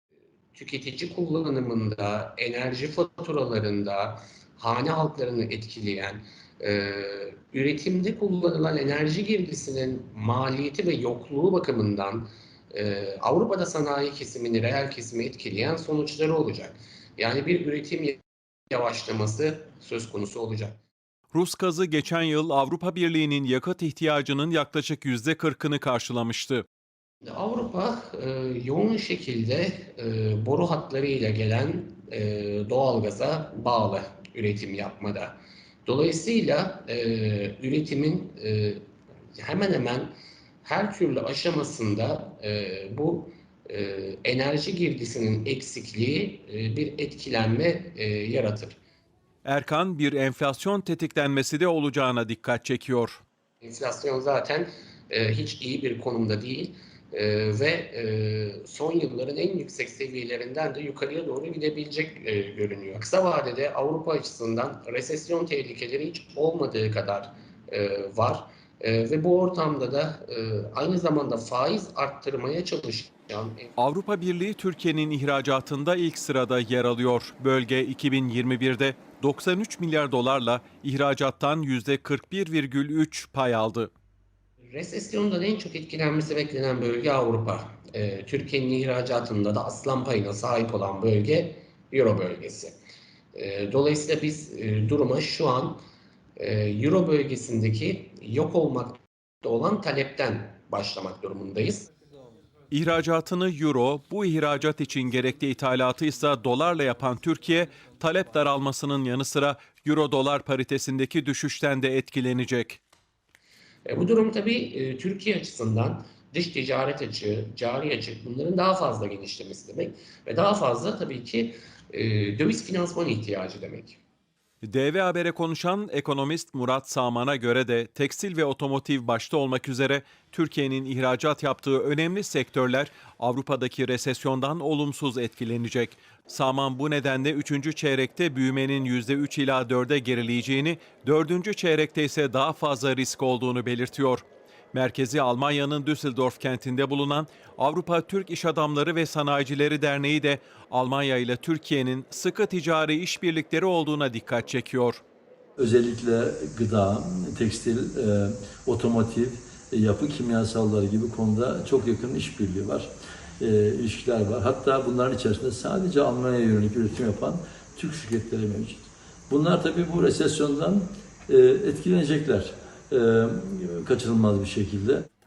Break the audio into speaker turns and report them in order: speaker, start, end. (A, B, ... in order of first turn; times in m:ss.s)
0:00.6-0:18.2 A
0:18.7-0:20.8 A
0:21.3-0:26.6 B
0:27.3-0:35.3 A
0:35.9-0:38.8 A
0:39.4-0:40.1 A
0:40.6-0:48.8 A
0:49.4-0:53.2 B
0:53.6-1:13.6 A
1:13.8-1:23.9 B
1:24.7-1:32.7 A
1:33.3-1:35.8 A
1:36.4-1:41.8 A
1:42.7-1:52.8 B
1:53.9-2:04.0 A
2:04.6-2:35.0 B
2:35.6-2:55.1 C